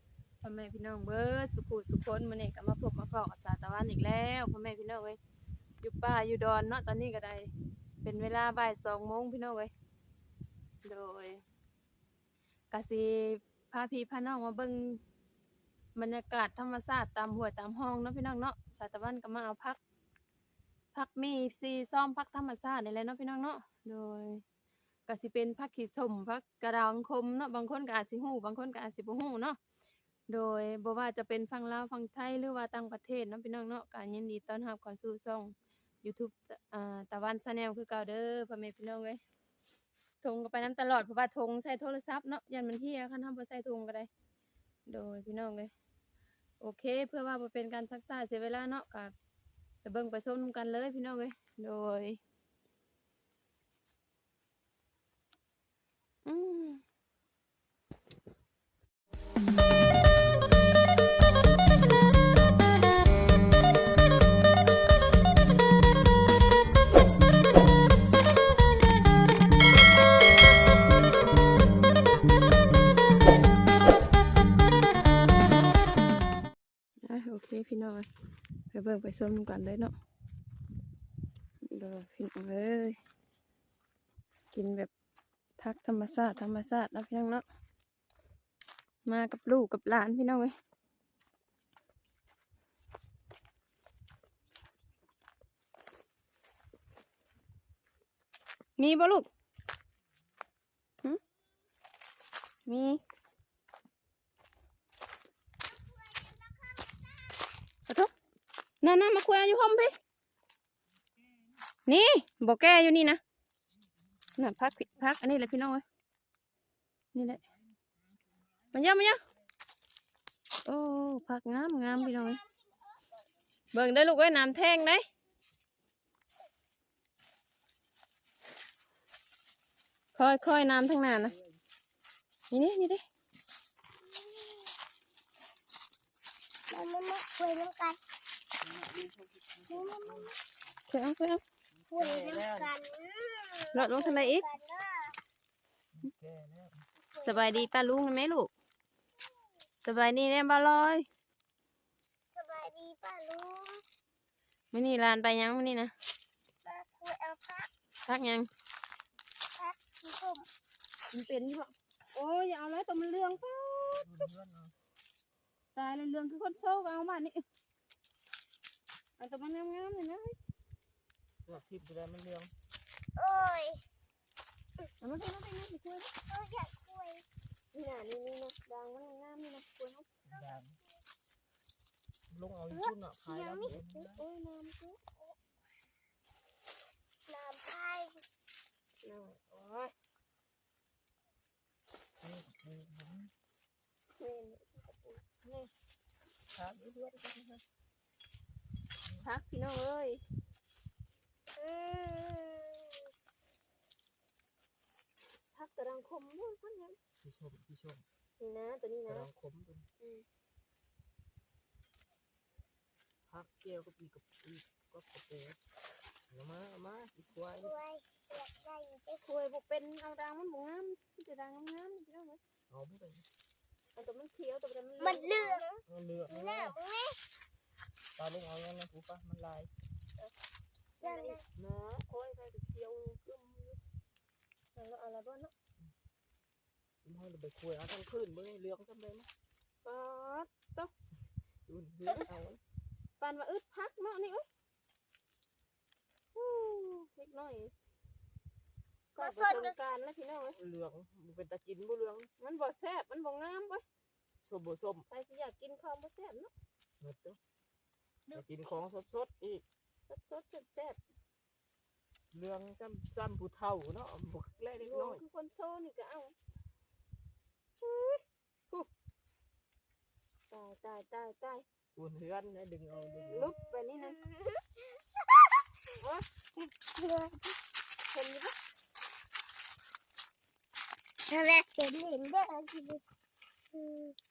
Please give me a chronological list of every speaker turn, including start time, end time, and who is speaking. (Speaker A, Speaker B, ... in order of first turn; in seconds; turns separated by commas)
Speaker A: 0.4-5.2, Speaker A: 5.8-7.5, Speaker A: 8.0-9.7, Speaker A: 10.8-11.4, Speaker A: 12.7-15.0, Speaker A: 15.9-19.8, Speaker A: 20.9-24.4, Speaker A: 25.1-29.6, Speaker A: 30.3-39.2, Speaker A: 40.2-44.1, Speaker A: 44.9-45.7, Speaker A: 46.6-49.1, Speaker A: 49.8-52.2, Speaker A: 56.3-56.8, Speaker A: 77.0-78.1, Speaker A: 78.7-79.9, Speaker A: 81.7-83.0, Speaker A: 84.5-84.9, Speaker A: 85.6-87.5, Speaker A: 89.0-90.6, Speaker A: 98.8-99.3, Speaker A: 102.7-103.0, Speaker B: 105.7-107.6, Speaker A: 108.8-110.0, Speaker A: 111.9-113.2, Speaker A: 114.3-115.8, Speaker A: 117.1-117.5, Speaker A: 118.7-119.2, Speaker A: 120.7-122.4, Speaker B: 121.9-123.3, Speaker A: 123.7-125.0, Speaker A: 130.2-131.3, Speaker C: 130.7-131.6, Speaker A: 132.5-133.0, Speaker B: 134.0-134.8, Speaker B: 136.7-138.0, Speaker C: 138.6-140.3, Speaker B: 139.7-140.3, Speaker A: 140.9-141.4, Speaker C: 141.8-142.7, Speaker B: 141.9-145.2, Speaker A: 143.7-144.4, Speaker C: 145.9-146.8, Speaker B: 147.0-147.7, Speaker A: 147.2-148.5, Speaker A: 149.8-151.1, Speaker B: 152.3-153.8, Speaker A: 154.7-155.9, Speaker B: 156.6-157.7, Speaker A: 158.1-158.5, Speaker B: 159.6-160.5, Speaker A: 161.1-164.2, Speaker C: 163.4-164.7, Speaker A: 165.8-167.4, Speaker A: 169.2-170.4, Speaker C: 171.4-172.5, Speaker B: 173.2-173.8, Speaker A: 175.0-176.1, Speaker B: 176.3-177.2, Speaker A: 177.7-180.1, Speaker C: 180.3-180.8, Speaker C: 182.3-184.2, Speaker B: 182.7-183.8, Speaker A: 183.7-185.1, Speaker B: 187.3-188.2, Speaker A: 189.0-189.9, Speaker C: 192.2-193.3, Speaker A: 194.2-195.2, Speaker C: 195.4-195.7, Speaker A: 196.7-197.6, Speaker A: 199.2-200.2, Speaker B: 201.6-203.0, Speaker A: 205.5-207.0, Speaker C: 207.2-208.1, Speaker A: 208.4-209.3, Speaker C: 209.1-209.9, Speaker A: 210.0-210.2, Speaker C: 213.3-215.6, Speaker C: 216.3-217.7, Speaker B: 217.6-219.2, Speaker A: 219.2-222.4, Speaker C: 222.7-223.3, Speaker A: 223.9-225.6, Speaker B: 225.0-227.2, Speaker C: 225.9-226.8, Speaker C: 228.2-229.7, Speaker A: 231.0-231.4, Speaker B: 231.0-231.4, Speaker C: 231.6-233.8, Speaker A: 234.8-235.5, Speaker C: 237.0-239.3, Speaker A: 239.8-240.9, Speaker C: 241.7-242.6, Speaker A: 243.2-244.5, Speaker A: 246.3-247.7, Speaker A: 249.1-250.6, Speaker B: 249.2-249.8, Speaker C: 250.6-252.3, Speaker A: 252.4-253.8, Speaker C: 254.4-255.1, Speaker A: 255.1-256.5, Speaker C: 257.0-257.4, Speaker C: 258.3-259.6, Speaker A: 260.1-261.0, Speaker C: 262.3-265.2, Speaker A: 264.8-266.4, Speaker A: 267.8-268.9, Speaker A: 270.5-271.6, Speaker C: 271.9-273.5, Speaker B: 273.0-275.0, Speaker A: 273.3-274.2, Speaker A: 276.0-276.2, Speaker B: 276.9-277.6, Speaker A: 278.1-278.6, Speaker B: 281.3-283.0, Speaker B: 283.7-284.2